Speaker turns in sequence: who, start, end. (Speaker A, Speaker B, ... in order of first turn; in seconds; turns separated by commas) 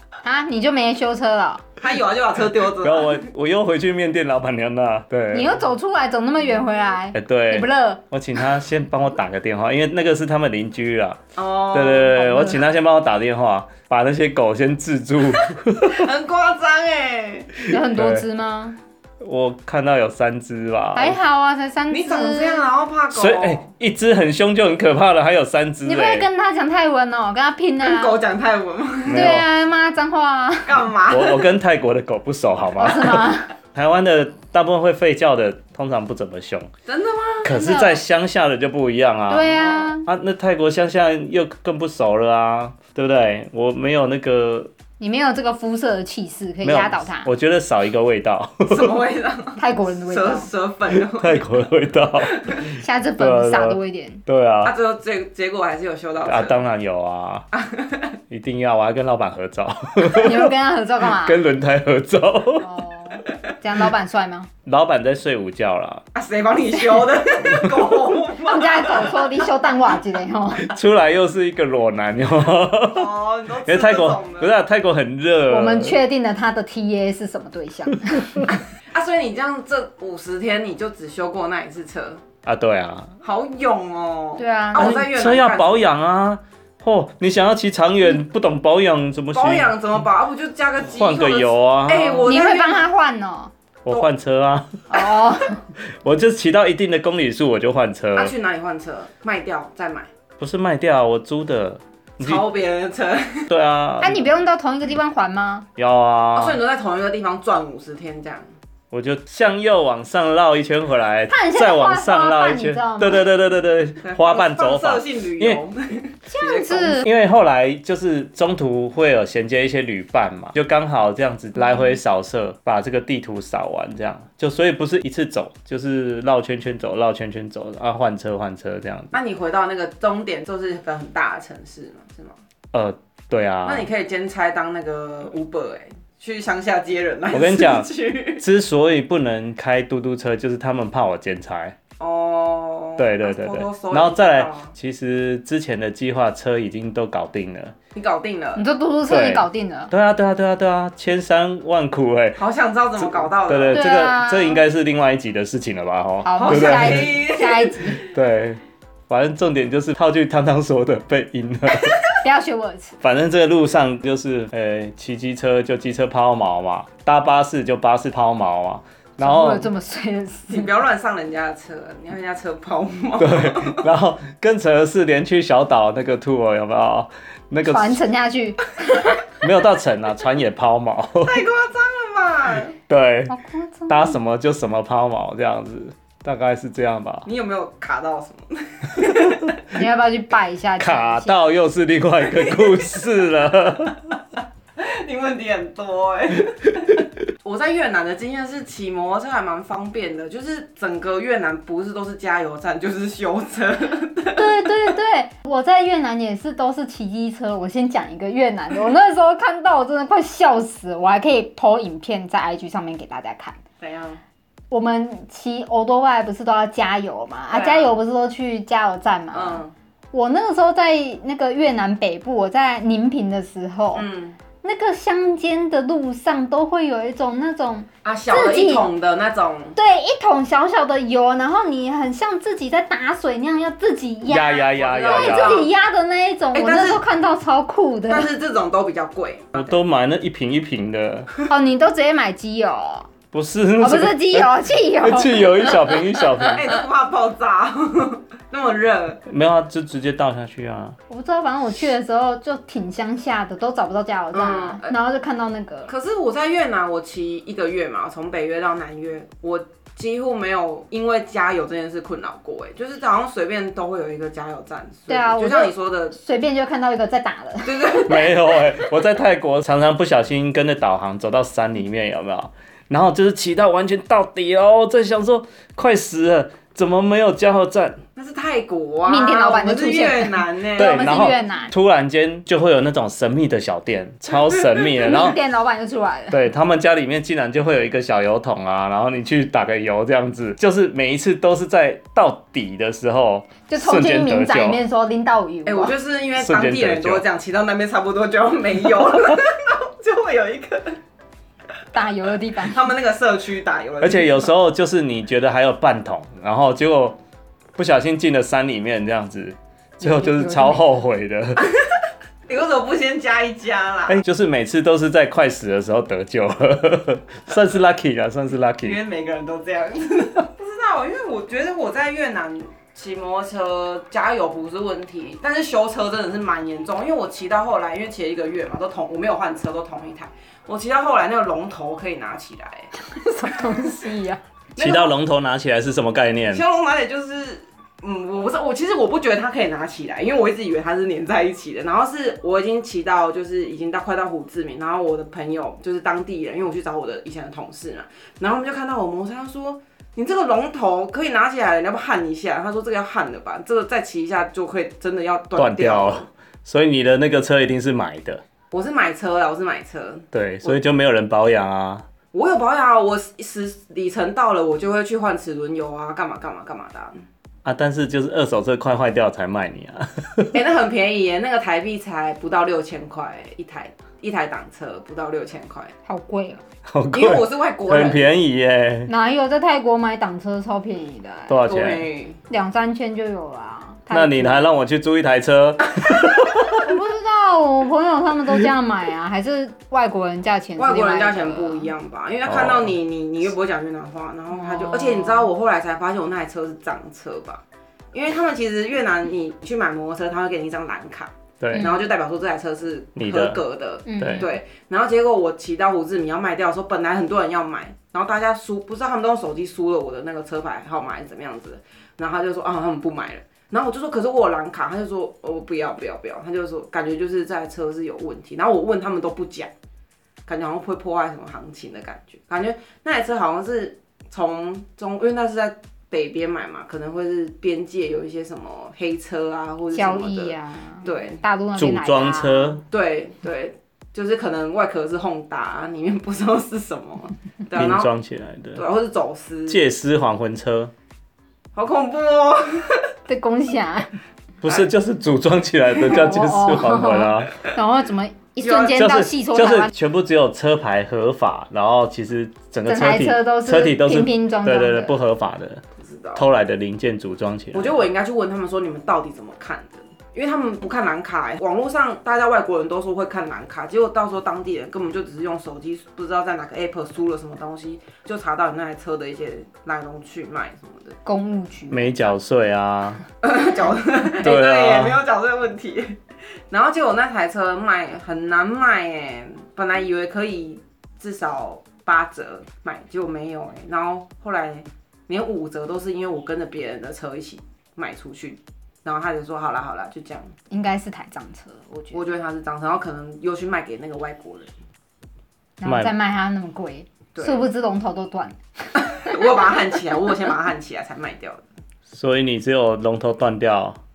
Speaker A: 0.2-1.6, Speaker B: 1.8-3.3, Speaker C: 2.8-5.6, Speaker A: 5.3-8.0, Speaker C: 7.1-11.2, Speaker B: 11.3-12.3, Speaker C: 11.7-16.1, Speaker A: 12.2-12.6, Speaker B: 15.9-17.5, Speaker A: 17.7-18.8, Speaker C: 17.7-18.3, Speaker C: 19.2-21.2, Speaker A: 20.9-22.7, Speaker B: 21.9-23.7, Speaker C: 23.1-26.3, Speaker A: 25.8-28.2, Speaker B: 27.8-29.4, Speaker C: 29.1-29.5, Speaker A: 29.1-30.8, Speaker B: 30.6-31.5, Speaker C: 31.1-36.7, Speaker A: 32.8-33.5, Speaker B: 36.9-37.5, Speaker C: 37.4-44.7, Speaker A: 37.5-38.0, Speaker A: 39.3-40.1, Speaker B: 39.5-39.9, Speaker A: 45.0-47.3, Speaker C: 46.6-48.9, Speaker B: 48.7-51.6, Speaker A: 49.6-50.5, Speaker C: 50.9-52.4, Speaker B: 52.2-52.6, Speaker A: 52.7-54.2, Speaker C: 53.2-54.7, Speaker B: 54.6-56.6, Speaker C: 56.2-57.5, Speaker B: 57.5-58.1, Speaker C: 58.3-60.5, Speaker A: 60.1-61.4, Speaker C: 61.0-62.7, Speaker A: 62.6-64.5, Speaker C: 64.7-66.0, Speaker B: 66.1-69.5, Speaker A: 68.4-70.7, Speaker C: 70.6-73.1, Speaker B: 72.9-74.6, Speaker C: 73.7-76.0, Speaker A: 75.5-78.6, Speaker B: 78.9-82.2, Speaker C: 82.4-83.1, Speaker B: 83.2-85.9, Speaker A: 84.4-85.0, Speaker C: 84.8-89.7, Speaker B: 89.3-92.9, Speaker C: 90.9-92.3, Speaker A: 92.2-93.5, Speaker C: 93.8-94.7, Speaker A: 94.9-95.6, Speaker C: 96.0-98.3, Speaker B: 98.1-100.1, Speaker C: 100.4-102.4, Speaker B: 102.2-103.5, Speaker C: 103.5-104.3, Speaker A: 104.0-105.7, Speaker C: 105.8-106.6, Speaker B: 106.3-108.5, Speaker C: 108.9-115.6, Speaker A: 111.3-113.3, Speaker B: 114.0-117.1, Speaker A: 116.3-117.1, Speaker C: 117.0-129.1, Speaker B: 129.1-132.4, Speaker C: 132.7-133.9, Speaker B: 133.6-138.4, Speaker C: 137.3-141.8, Speaker B: 142.0-144.7, Speaker C: 143.0-147.7, Speaker B: 147.9-148.6, Speaker A: 148.6-149.9, Speaker C: 149.1-152.4, Speaker B: 152.3-153.9, Speaker C: 153.0-157.2, Speaker A: 153.7-154.6, Speaker A: 156.2-158.0, Speaker B: 156.3-158.0, Speaker C: 158.1-162.0, Speaker A: 162.2-162.9, Speaker C: 163.0-169.7, Speaker A: 169.2-170.7, Speaker B: 170.5-173.8, Speaker C: 173.2-178.0, Speaker A: 177.6-179.2, Speaker C: 179.4-181.4, Speaker B: 181.2-182.7, Speaker C: 182.9-183.3, Speaker A: 183.3-184.2, Speaker C: 183.9-187.3, Speaker B: 187.2-189.6, Speaker A: 189.7-191.4, Speaker C: 190.8-194.1, Speaker B: 192.2-193.1, Speaker B: 194.8-204.8, Speaker A: 204.3-213.6, Speaker B: 213.8-214.2, Speaker A: 214.7-224.1, Speaker B: 217.5-218.0, Speaker B: 219.3-219.7, Speaker B: 223.9-224.4, Speaker A: 224.6-228.9, Speaker B: 228.0-229.8, Speaker A: 229.7-238.3, Speaker C: 234.2-235.6, Speaker B: 234.7-235.7, Speaker B: 236.5-237.0, Speaker B: 238.1-239.7, Speaker C: 239.5-241.3, Speaker A: 241.5-243.1, Speaker C: 243.3-246.7, Speaker A: 243.8-245.9, Speaker B: 246.4-249.2, Speaker C: 249.3-250.9, Speaker A: 251.1-255.9, Speaker B: 254.3-255.0, Speaker B: 255.9-266.1, Speaker A: 265.1-268.3, Speaker B: 267.6-268.4, Speaker C: 268.0-278.0, Speaker B: 278.1-281.4, Speaker A: 279.1-281.7, Speaker C: 280.8-285.4, Speaker A: 285.0-286.4, Speaker C: 286.3-294.8, Speaker A: 293.7-295.9, Speaker B: 295.6-301.0, Speaker C: 296.4-297.2, Speaker A: 301.9-302.9, Speaker B: 302.6-304.5, Speaker C: 304.0-307.2, Speaker C: 307.8-311.6, Speaker A: 310.0-310.8, Speaker B: 312.5-314.2, Speaker C: 314.1-319.0, Speaker B: 318.8-332.9, Speaker A: 333.0-334.4, Speaker B: 333.5-333.9, Speaker B: 334.8-335.1, Speaker C: 334.8-336.6, Speaker B: 336.5-356.3, Speaker C: 355.6-358.4, Speaker B: 358.7-360.8, Speaker C: 360.3-362.1, Speaker B: 362.3-367.2, Speaker C: 367.6-370.6, Speaker B: 370.5-375.9, Speaker A: 376.0-376.6, Speaker C: 376.9-379.1, Speaker B: 377.1-378.3, Speaker A: 379.1-381.6, Speaker C: 381.5-382.1, Speaker B: 381.6-382.4, Speaker A: 382.5-384.7, Speaker C: 384.1-386.7, Speaker A: 386.8-391.9, Speaker B: 390.8-397.6, Speaker C: 392.5-392.9, Speaker A: 394.5-395.5, Speaker B: 398.1-419.7, Speaker C: 401.6-401.9, Speaker C: 403.1-403.6, Speaker A: 404.1-404.5, Speaker C: 404.2-404.5, Speaker B: 420.4-431.4, Speaker A: 429.9-432.8, Speaker C: 431.8-432.8, Speaker B: 432.9-438.1, Speaker C: 437.7-438.8, Speaker B: 438.7-439.8, Speaker C: 439.7-440.9, Speaker B: 441.7-443.0, Speaker A: 443.3-444.1, Speaker C: 444.6-447.6, Speaker B: 444.6-444.9, Speaker A: 446.1-449.9, Speaker B: 448.6-449.0, Speaker C: 448.9-455.8, Speaker A: 452.9-455.2, Speaker B: 456.0-456.4, Speaker C: 456.4-458.0, Speaker B: 457.7-471.2, Speaker A: 471.2-472.3, Speaker C: 471.9-473.2, Speaker B: 473.4-476.1, Speaker C: 474.4-475.2, Speaker B: 476.7-490.5, Speaker A: 490.7-492.2, Speaker B: 492.1-494.7, Speaker A: 495.8-499.4, Speaker C: 495.8-496.1, Speaker B: 497.3-497.7, Speaker B: 499.2-501.6, Speaker C: 502.1-504.0